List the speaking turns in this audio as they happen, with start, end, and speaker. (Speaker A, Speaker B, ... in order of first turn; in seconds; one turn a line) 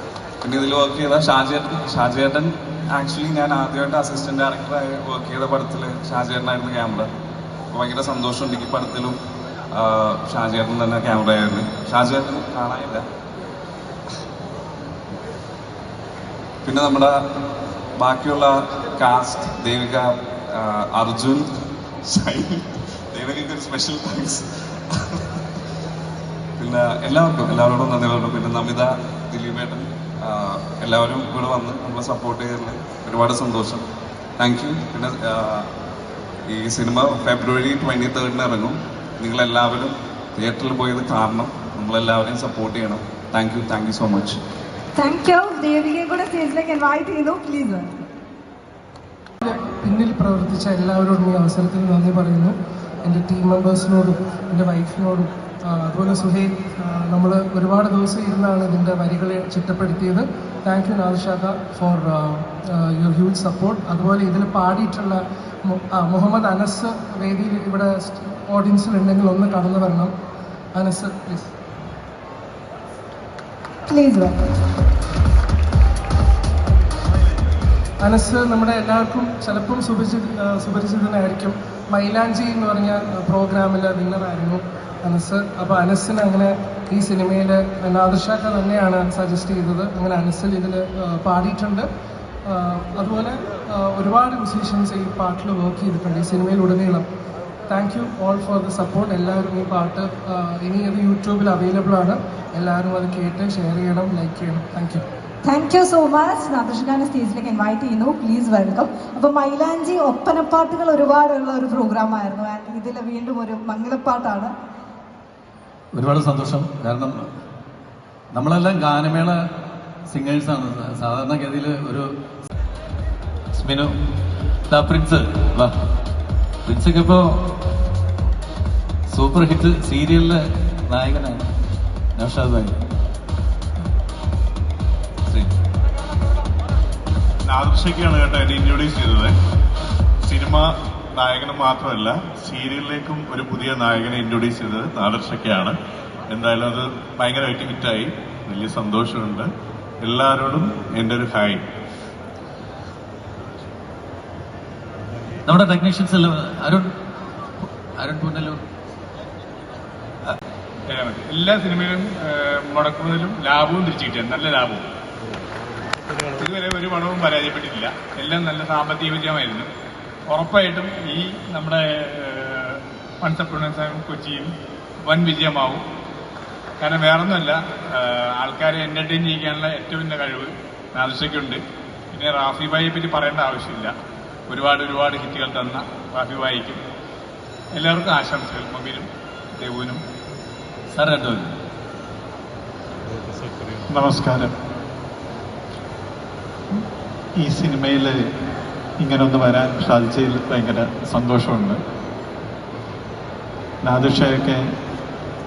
Speaker A: 0.4-7.1
Speaker A: 7.7-9.2
Speaker A: 9.7-13.1
Speaker A: 16.6-17.1
Speaker A: 18.0-21.5
Speaker A: 22.1-25.2
Speaker A: 26.6-33.8
Speaker A: 34.4-35.7
Speaker A: 36.5-44.4
Speaker B: 45.0-48.0
Speaker C: 49.4-70.1
Speaker C: 70.7-71.5
Speaker B: 73.9-74.5
Speaker C: 78.0-91.9
Speaker C: 92.5-97.1
Speaker C: 97.7-105.0
Speaker B: 105.4-114.5
Speaker D: 115.9-117.3
Speaker D: 118.3-119.4
Speaker D: 120.1-122.1
Speaker D: 123.5-124.0
Speaker D: 124.7-125.8
Speaker D: 126.7-127.6
Speaker D: 129.1-131.4
Speaker D: 132.2-132.8
Speaker E: 137.5-139.3
Speaker E: 140.2-145.8
Speaker E: 146.3-149.5
Speaker E: 150.0-151.6
Speaker D: 155.5-156.9
Speaker D: 158.0-158.6
Speaker F: 160.9-164.9
Speaker F: 166.4-169.7
Speaker F: 170.3-174.5
Speaker F: 175.1-175.8
Speaker F: 176.8-181.6
Speaker F: 182.1-183.9
Speaker F: 184.5-186.8
Speaker F: 187.7-190.0
Speaker D: 190.9-191.5
Speaker G: 197.5-198.1
Speaker G: 199.0-201.8
Speaker G: 203.9-204.6